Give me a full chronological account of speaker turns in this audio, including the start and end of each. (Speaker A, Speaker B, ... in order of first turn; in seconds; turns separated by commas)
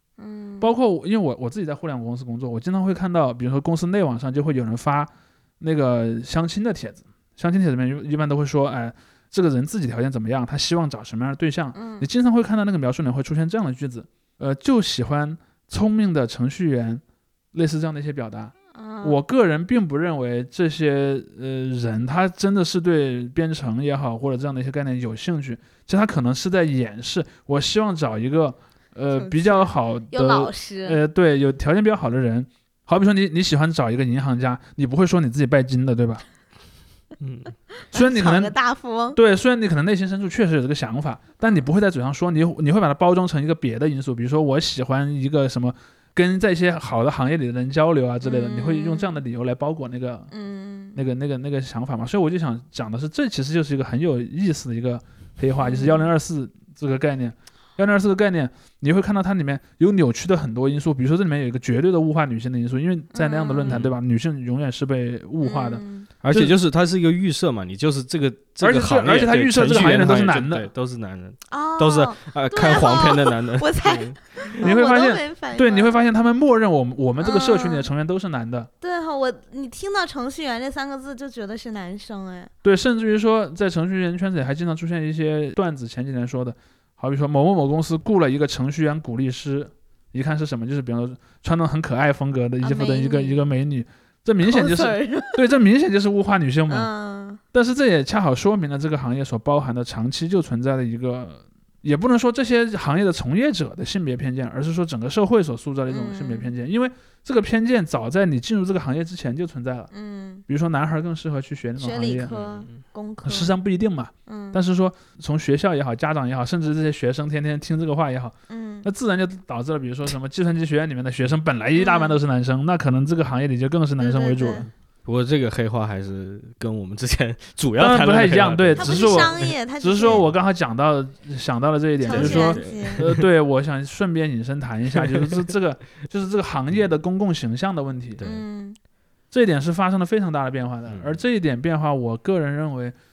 Speaker A: 0.2-0.7, Speaker B: 0.6-17.0, Speaker A: 11.8-12.1, Speaker B: 17.5-36.2, Speaker A: 18.7-19.2, Speaker A: 29.1-31.0, Speaker C: 37.2-37.5, Speaker A: 37.9-39.2, Speaker B: 37.9-38.5, Speaker B: 39.1-50.3, Speaker A: 48.2-49.2, Speaker A: 50.3-51.0, Speaker B: 51.0-66.5, Speaker A: 55.6-56.1, Speaker A: 63.1-63.8, Speaker C: 63.6-64.0, Speaker A: 65.4-66.1, Speaker C: 66.2-74.7, Speaker B: 68.6-70.7, Speaker A: 71.5-76.0, Speaker B: 74.6-78.7, Speaker A: 77.2-77.9, Speaker A: 78.8-82.5, Speaker B: 82.6-96.9, Speaker A: 92.6-93.4, Speaker A: 94.4-95.5, Speaker A: 96.7-97.4, Speaker B: 97.5-109.9, Speaker A: 105.9-106.5, Speaker A: 109.9-110.4, Speaker B: 110.5-112.3, Speaker A: 111.8-113.5, Speaker C: 112.2-112.8, Speaker B: 113.2-124.7, Speaker A: 114.3-114.6, Speaker A: 118.5-118.9, Speaker A: 121.8-122.2, Speaker A: 124.0-124.7, Speaker C: 125.0-130.3, Speaker B: 127.8-138.2, Speaker A: 128.8-130.2, Speaker A: 132.0-133.1, Speaker C: 132.1-133.2, Speaker C: 138.2-138.4, Speaker A: 138.2-138.8, Speaker B: 139.3-142.9, Speaker C: 140.9-141.2